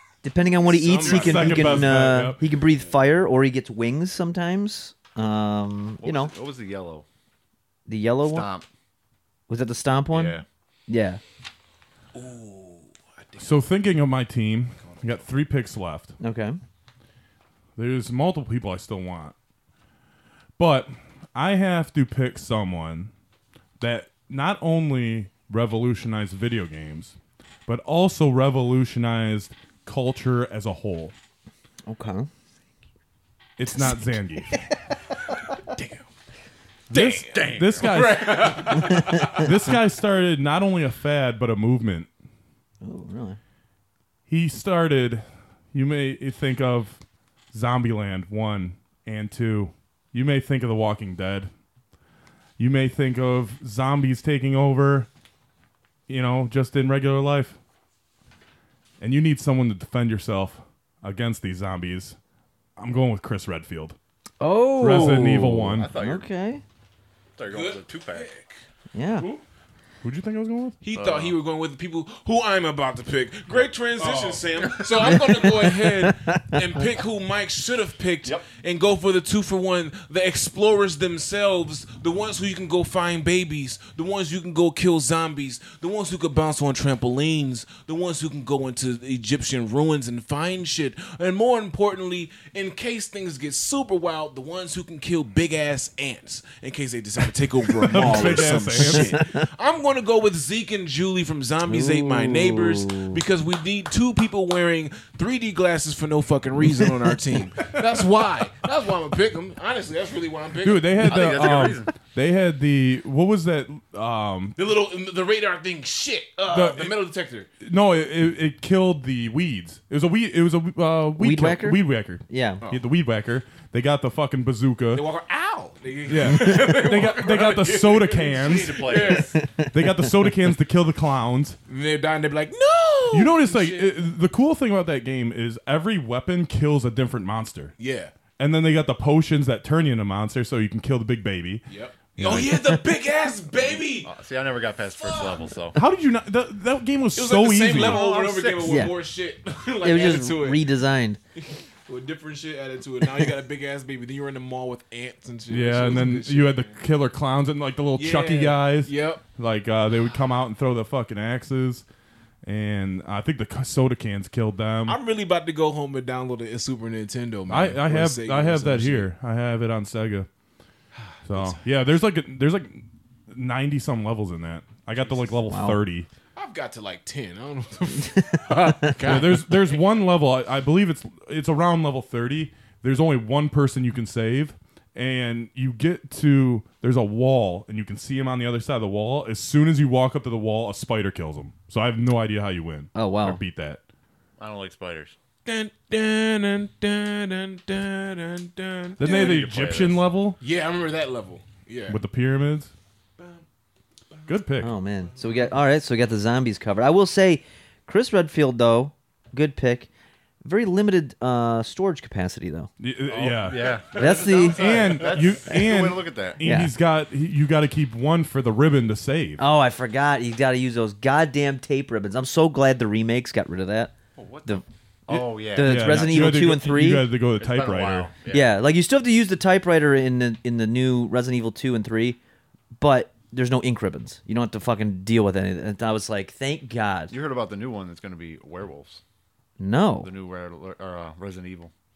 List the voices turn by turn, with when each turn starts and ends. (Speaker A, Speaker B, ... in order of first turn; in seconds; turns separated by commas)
Speaker A: 0.2-6.3, Speaker B: 0.6-2.0, Speaker C: 1.0-2.4, Speaker D: 6.0-7.0, Speaker A: 7.9-8.5, Speaker D: 8.3-8.7, Speaker A: 9.5-11.2, Speaker D: 10.1-10.4, Speaker B: 12.1-13.8, Speaker C: 13.4-16.1, Speaker B: 14.7-15.3, Speaker A: 16.2-16.6, Speaker C: 17.8-19.4, Speaker C: 20.6-23.1, Speaker C: 23.8-27.2, Speaker C: 27.7-31.1, Speaker A: 31.9-32.3, Speaker C: 33.6-34.6, Speaker B: 35.4-36.1, Speaker C: 36.9-42.1, Speaker B: 36.9-39.7, Speaker D: 37.3-38.0, Speaker A: 42.8-43.4, Speaker C: 44.3-47.0, Speaker C: 47.5-51.5, Speaker C: 52.6-55.1, Speaker C: 56.1-57.6, Speaker C: 59.0-62.2, Speaker C: 62.8-64.0, Speaker A: 64.4-66.6, Speaker C: 64.8-65.9, Speaker D: 65.7-66.3, Speaker D: 67.4-68.3, Speaker B: 67.5-68.6, Speaker A: 68.9-69.3, Speaker C: 70.0-70.8, Speaker B: 70.8-111.4, Speaker D: 71.0-71.4, Speaker C: 74.0-74.5, Speaker D: 74.6-75.2, Speaker A: 75.0-76.8, Speaker C: 97.8-99.2, Speaker A: 101.7-103.2, Speaker C: 110.6-114.6, Speaker D: 111.0-111.9, Speaker B: 114.6-117.5, Speaker C: 116.5-117.0, Speaker C: 117.6-125.0, Speaker A: 121.2-122.6, Speaker B: 124.9-129.4, Speaker C: 126.1-131.6, Speaker D: 128.4-129.3, Speaker A: 129.4-129.8, Speaker B: 131.7-133.9, Speaker C: 133.1-137.8, Speaker B: 137.8-138.2, Speaker C: 138.4-141.7, Speaker B: 141.7-144.1, Speaker A: 142.3-142.8, Speaker D: 143.6-145.8, Speaker B: 145.0-145.5, Speaker C: 145.8-148.0, Speaker B: 147.2-150.7, Speaker D: 147.7-148.9, Speaker A: 148.6-148.9, Speaker A: 149.8-151.2, Speaker B: 151.4-156.8, Speaker C: 155.5-161.8, Speaker B: 158.0-159.2, Speaker C: 162.4-165.0, Speaker B: 164.9-169.1, Speaker C: 167.5-170.3, Speaker B: 170.9-171.6, Speaker C: 171.3-176.1, Speaker B: 175.0-175.4, Speaker A: 175.5-175.8, Speaker B: 176.4-179.8, Speaker A: 178.3-178.9, Speaker C: 179.0-193.8, Speaker A: 192.9-193.4, Speaker D: 194.4-195.2, Speaker B: 195.4-199.5, Speaker C: 199.0-200.4, Speaker D: 199.0-200.1, Speaker B: 200.4-202.0, Speaker C: 201.9-202.7, Speaker B: 203.2-203.4, Speaker C: 204.3-204.7, Speaker A: 204.6-209.9, Speaker A: 210.4-212.7, Speaker C: 212.8-213.8, Speaker D: 213.1-216.4, Speaker B: 213.6-215.3, Speaker A: 213.9-214.8, Speaker C: 214.5-219.4, Speaker A: 216.4-216.7, Speaker A: 219.4-223.9, Speaker D: 224.2-226.2, Speaker A: 224.5-227.1, Speaker C: 225.6-228.1, Speaker D: 227.4-228.5, Speaker A: 228.3-232.2, Speaker A: 232.8-237.1, Speaker D: 237.1-239.0, Speaker A: 239.6-240.1, Speaker D: 240.0-241.7